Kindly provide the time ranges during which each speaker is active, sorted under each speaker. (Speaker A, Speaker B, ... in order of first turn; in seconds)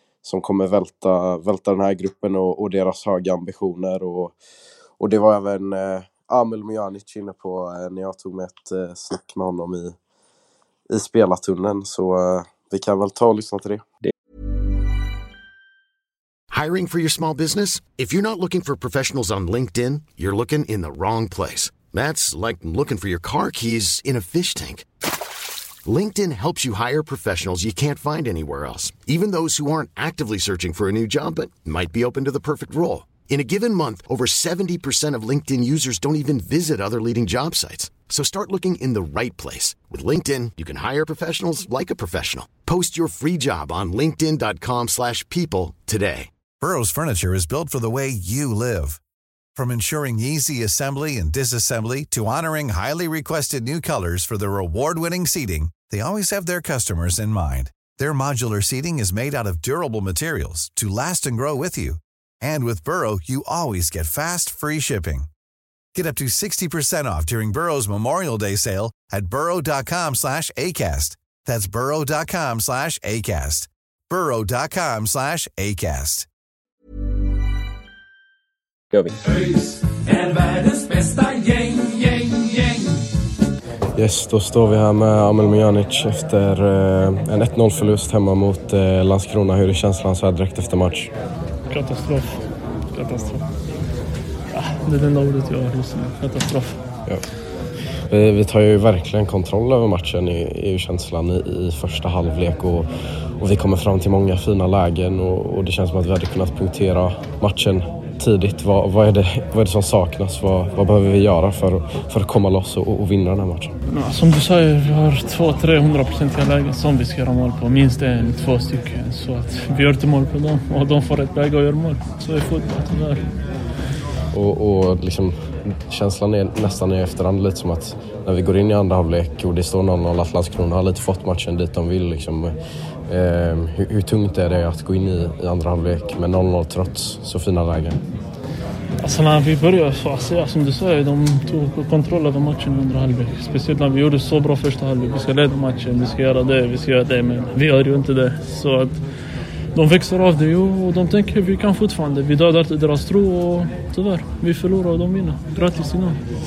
Speaker A: 0.2-4.3, 5.0-9.9, 10.9-13.8, 84.0-91.1, 98.1-102.9, 103.4-113.7, 124.3-132.5, 133.1-138.0
Speaker B: 16.5-24.9, 25.9-46.3
Speaker C: 46.6-49.0, 49.5-65.3, 65.9-76.3
Speaker D: 79.2-83.1
Speaker E: 91.7-92.4, 92.9-93.4, 94.5-96.8, 113.9-123.3, 139.0-149.0, 149.7-156.2